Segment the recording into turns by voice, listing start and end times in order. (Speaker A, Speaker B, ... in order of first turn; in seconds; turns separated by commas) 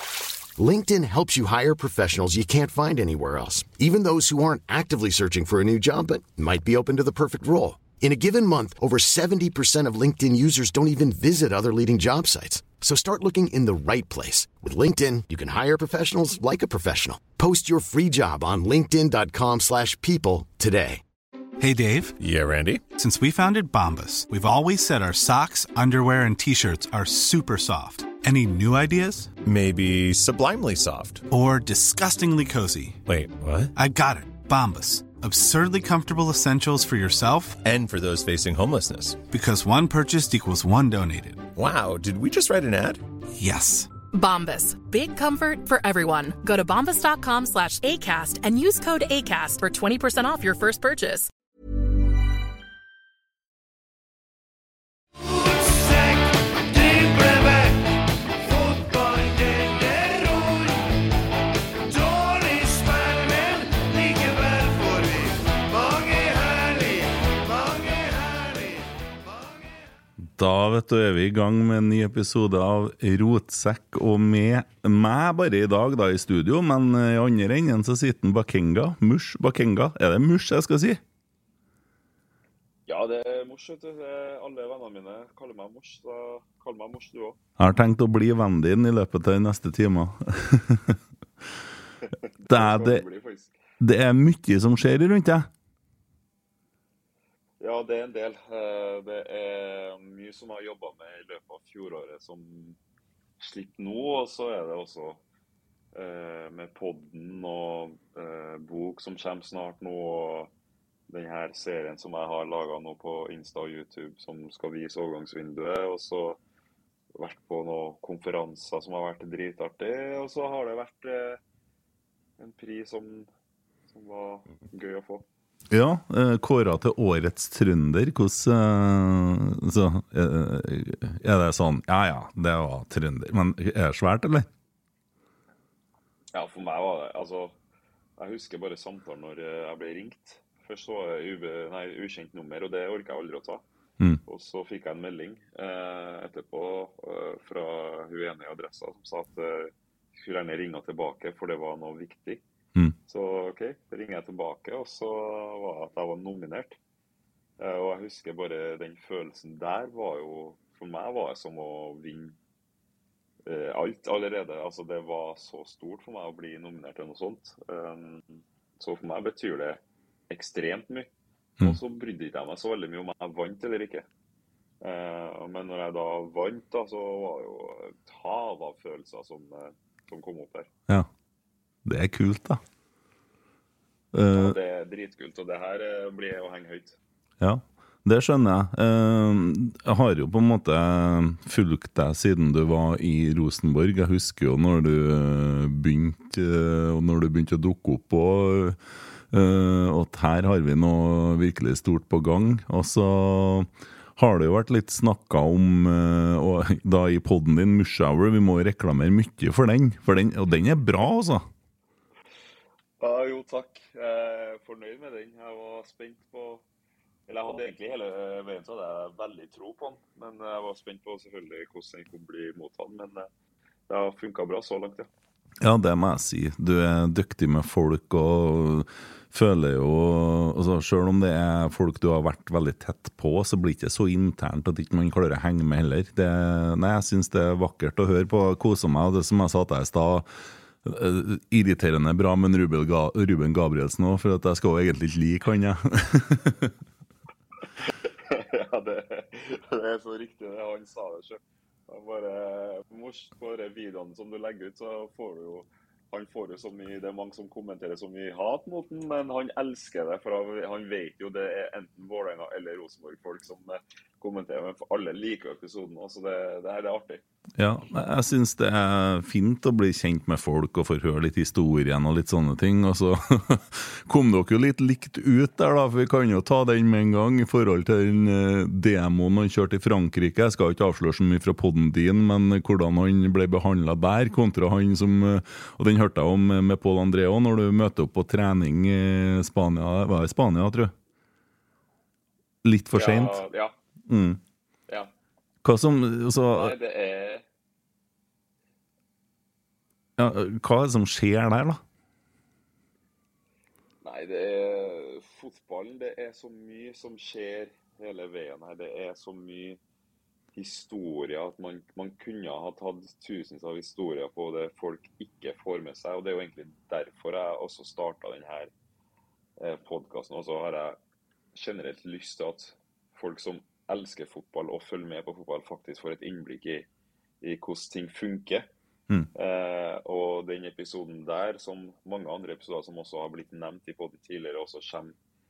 Speaker A: 0.6-21.0, Speaker B: 21.6-22.2, Speaker C: 22.2-22.8, Speaker B: 22.8-29.3, Speaker C: 29.4-31.2, Speaker B: 31.3-33.0, Speaker C: 33.1-33.7, Speaker B: 33.8-37.6, Speaker C: 37.6-39.2, Speaker B: 39.3-41.5, Speaker C: 41.5-43.0, Speaker B: 43.4-43.9, Speaker D: 44.1-51.3, Speaker E: 70.2-81.0, Speaker F: 82.9-87.4, Speaker E: 87.6-91.0, Speaker F: 92.4-93.5, Speaker E: 92.5-93.0, Speaker E: 93.8-95.5, Speaker F: 97.6-102.8, Speaker F: 103.4-105.2, Speaker F: 105.9-110.5, Speaker F: 111.1-116.4, Speaker F: 117.1-121.4, Speaker F: 122.4-123.3, Speaker F: 123.9-125.2, Speaker E: 125.7-134.5, Speaker F: 136.3-137.5, Speaker F: 138.2-143.6, Speaker F: 144.2-152.4, Speaker F: 153.1-156.8, Speaker F: 157.6-162.3, Speaker F: 163.4-171.1, Speaker F: 171.6-174.1, Speaker F: 174.8-180.7, Speaker E: 181.8-182.6, Speaker E: 184.1-184.6, Speaker F: 184.3-187.0, Speaker E: 187.4-198.8, Speaker E: 199.3-211.4, Speaker F: 213.0-216.6, Speaker F: 217.3-223.3, Speaker F: 223.9-225.1, Speaker E: 225.6-240.3, Speaker E: 240.8-246.7, Speaker F: 247.9-267.2, Speaker E: 267.6-290.9, Speaker E: 292.6-293.4, Speaker F: 292.9-293.7, Speaker E: 294.1-294.4, Speaker E: 295.6-296.7, Speaker F: 296.5-297.4, Speaker E: 300.2-301.8, Speaker F: 304.0-309.8, Speaker F: 310.6-318.7, Speaker F: 319.6-321.0, Speaker F: 321.5-326.9, Speaker F: 327.4-328.7, Speaker F: 329.3-335.1